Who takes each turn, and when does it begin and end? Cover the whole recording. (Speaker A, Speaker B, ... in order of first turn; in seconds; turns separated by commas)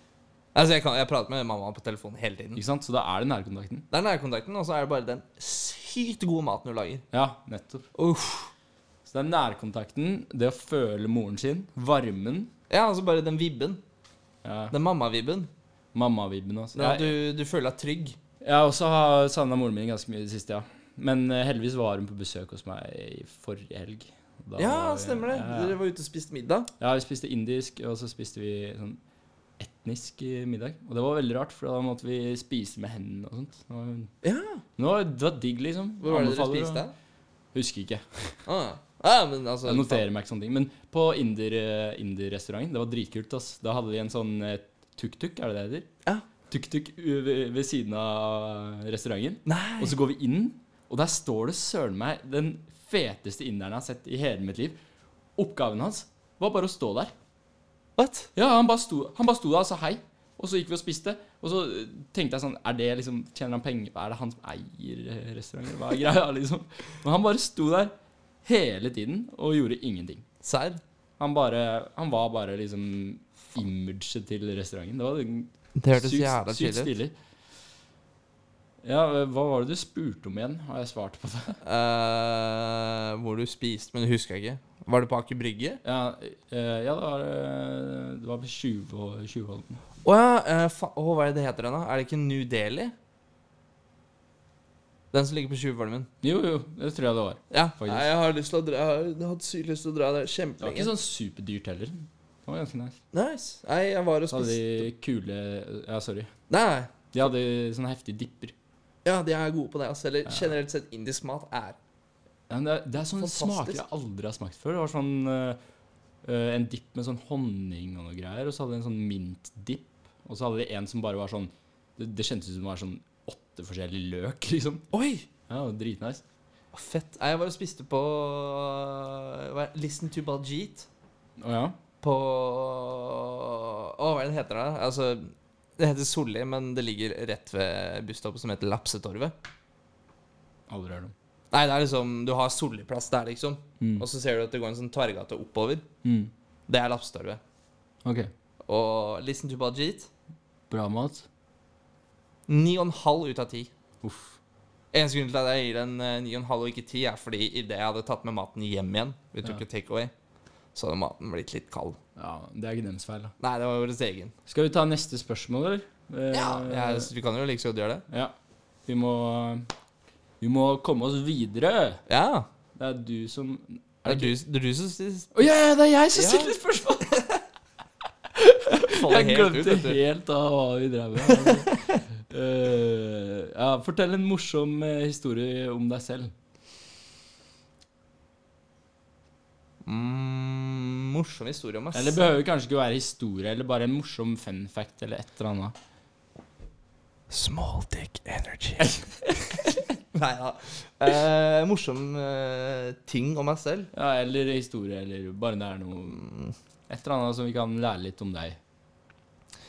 Speaker A: 0.6-2.6, Speaker B: 2.6-3.9, Speaker A: 3.9-7.0, Speaker B: 7.1-7.9, Speaker A: 7.9-8.5, Speaker B: 9.1-12.5, Speaker A: 12.7-13.8, Speaker B: 14.4-14.7, Speaker A: 14.7-15.5, Speaker B: 15.9-17.1, Speaker A: 16.8-18.2, Speaker B: 18.4-25.8, Speaker A: 24.6-26.7, Speaker B: 26.8-29.0, Speaker B: 29.6-34.1, Speaker A: 34.2-34.6, Speaker B: 34.8-36.9, Speaker A: 36.0-36.9, Speaker B: 37.5-38.4, Speaker A: 38.5-40.0, Speaker B: 39.6-45.9, Speaker B: 46.5-54.8, Speaker A: 49.5-50.0, Speaker B: 55.4-57.1, Speaker A: 58.0-58.3, Speaker B: 58.4-67.9, Speaker B: 68.4-70.2, Speaker A: 70.4-70.8, Speaker B: 71.2-77.2, Speaker A: 75.8-76.9, Speaker B: 78.8-81.6, Speaker A: 81.6-85.8, Speaker B: 85.8-89.8, Speaker A: 90.0-92.9, Speaker A: 95.1-96.1, Speaker B: 96.2-98.1, Speaker A: 97.5-100.9, Speaker B: 100.6-103.0, Speaker A: 103.1-104.8, Speaker B: 104.3-106.3, Speaker A: 106.5-107.0, Speaker B: 107.1-108.5, Speaker A: 109.0-111.8, Speaker B: 112.5-115.6, Speaker A: 113.2-113.8, Speaker B: 116.2-124.8, Speaker A: 124.9-125.3, Speaker B: 125.5-126.2, Speaker A: 126.7-130.9, Speaker B: 131.4-131.8, Speaker A: 132.0-139.3, Speaker B: 140.7-141.1, Speaker A: 141.5-145.9, Speaker B: 143.8-144.0, Speaker B: 146.0-146.3, Speaker A: 146.7-147.4, Speaker B: 148.0-148.3, Speaker A: 148.7-150.1, Speaker B: 150.7-151.2, Speaker A: 152.5-153.7, Speaker B: 154.0-154.4, Speaker A: 154.9-160.1, Speaker A: 160.8-162.0, Speaker B: 162.2-163.3, Speaker A: 163.4-164.3, Speaker B: 164.5-167.1, Speaker A: 166.3-168.0, Speaker B: 168.1-168.3, Speaker B: 168.9-169.7, Speaker B: 170.4-172.0, Speaker A: 172.1-172.5, Speaker B: 172.8-174.3, Speaker A: 174.1-175.5, Speaker B: 175.3-177.3, Speaker A: 176.1-176.6, Speaker B: 178.3-186.3, Speaker A: 178.8-180.0, Speaker A: 181.2-182.0, Speaker A: 189.8-192.3, Speaker B: 191.9-195.8, Speaker A: 197.3-203.9, Speaker B: 203.9-206.2, Speaker A: 206.2-206.5, Speaker B: 206.9-208.6